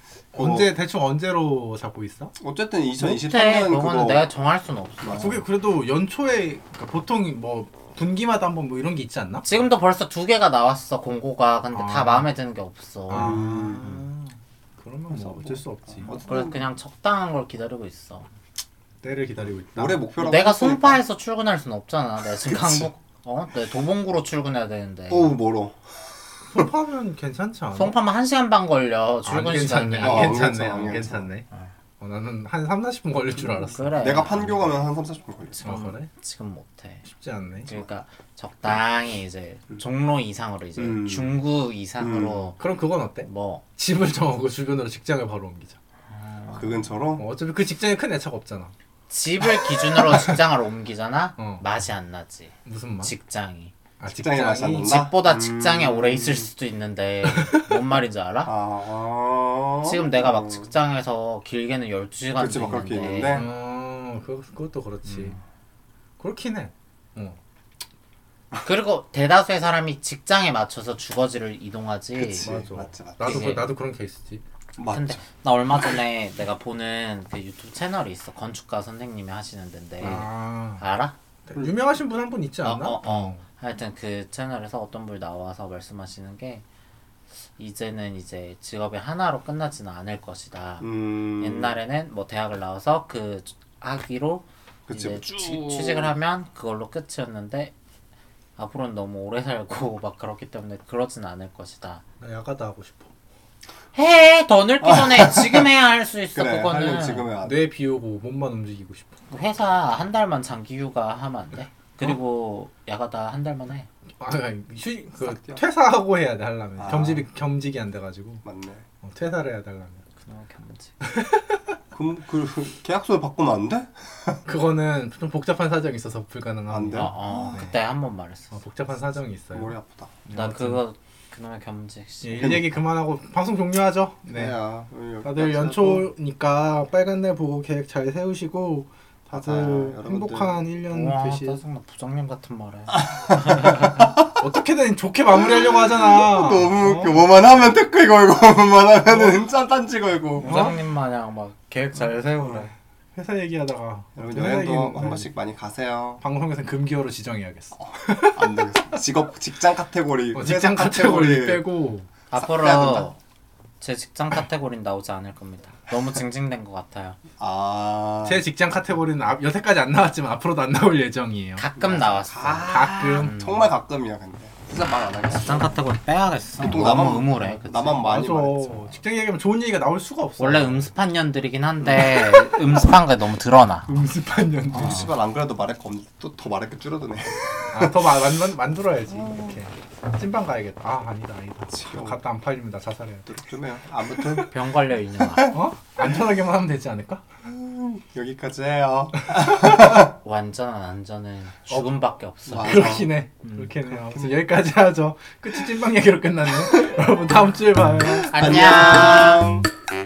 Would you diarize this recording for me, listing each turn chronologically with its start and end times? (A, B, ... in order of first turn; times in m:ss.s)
0:00.3-0:00.7 A
0:00.3-0:02.3 B
0:02.4-0:04.3 A
0:03.0-0:05.4 C
0:05.0-0:05.4 A
0:05.2-0:09.4 B
0:09.4-0:13.4 C
0:11.7-0:12.3 B
0:13.1-0:14.0 A
0:13.1-0:16.1 B
0:15.1-0:16.7 A
0:16.1-0:18.3 C
0:19.0-0:20.0 B
0:19.7-0:21.0 A
0:20.2-0:25.3 C
0:22.4-0:22.9 A
0:25.1-0:26.7 A
0:26.5-0:28.0 B
0:27.7-0:30.4 C
0:29.2-0:31.4 B
0:30.0-0:31.3 A
0:32.0-0:34.0 B
0:33.7-0:34.7 C
0:34.0-0:35.6 A
0:35.5-0:37.0 C
0:35.6-0:36.1 B
0:37.0-0:37.9 B
0:37.6-0:42.6 C
0:40.8-0:41.4 A
0:42.0-0:42.5 A
0:42.6-0:45.8 B
0:43.2-0:43.6 C
0:46.1-0:46.8 C
0:46.5-0:47.2 A
0:47.2-0:48.7 B
0:49.1-0:53.7 C
0:51.4-0:51.6 B
0:52.6-0:53.1 B
0:54.0-0:54.9 B
0:54.1-0:56.5 A
0:54.5-0:58.5 C
0:57.3-0:57.6 B
0:58.4-1:00.7 A
0:59.8-1:03.4 C
1:02.4-1:03.5 A
1:03.3-1:05.4 B
1:06.2-1:07.4 B
1:08.6-1:12.5 C
1:12.2-1:13.6 A
1:12.4-1:14.4 B
1:13.2-1:13.7 C
1:14.8-1:15.2 A
1:14.9-1:21.1 C
1:20.0-1:20.8 B
1:21.5-1:23.4 B
1:22.6-1:26.6 C
1:27.6-1:37.7 C
1:30.8-1:31.7 A
1:34.9-1:36.1 A
1:38.6-1:42.0 C
1:42.2-1:43.1 B
1:43.9-1:47.3 C
1:44.8-1:45.7 A
1:46.4-1:47.6 A
1:47.4-1:49.1 B
1:49.3-1:53.9 C
1:54.2-1:58.4 B
1:55.2-1:55.6 A
1:56.8-1:57.2 A
1:58.4-1:58.8 A
1:59.0-2:00.0 B
2:00.2-2:00.9 C
2:01.0-2:01.7 B
2:01.9-2:04.4 A
2:04.4-2:07.7 B
2:06.7-2:07.7 A
2:06.9-2:08.6 C
2:08.5-2:09.7 B
2:09.5-2:10.2 A
2:10.3-2:10.8 B
2:10.3-2:12.6 C
2:12.2-2:14.6 B
2:12.4-2:12.7 A
2:14.3-2:16.1 A
2:15.2-2:21.6 B
2:19.3-2:20.6 A
2:20.9-2:24.0 C
2:23.0-2:24.4 A
2:24.4-2:27.2 B
2:25.4-2:30.7 A
2:29.1-2:29.4 B
2:30.4-2:30.8 B
2:30.4-2:32.7 C
2:33.1-2:35.3 B
2:34.2-2:36.2 A
2:36.2-2:38.6 B
2:37.8-2:41.6 A
2:40.3-2:42.1 B
2:42.3-2:43.2 C
2:42.3-2:43.1 A
2:43.8-2:47.2 C
2:47.4-2:48.4 A
2:48.2-2:51.6 B
2:51.6-2:53.7 C
2:51.8-2:55.8 A
2:52.7-2:53.4 B
2:55.2-2:58.1 C
2:56.6-2:58.9 A
2:58.0-3:00.9 B
3:00.4-3:03.9 C
3:03.9-3:05.1 B
3:04.7-3:07.9 A
3:04.8-3:05.0 C
3:07.7-3:13.3 B
3:11.7-3:12.2 A
3:13.3-3:14.6 A
3:14.5-3:15.6 C
3:15.5-3:17.2 B
3:17.4-3:20.1 A
3:19.2-3:20.1 B
3:20.1-3:22.9 C
3:22.5-3:23.1 A
3:22.6-3:29.0 B
3:23.4-3:23.7 C
3:23.9-3:24.4 A
3:28.3-3:29.7 A
3:28.3-3:29.4 C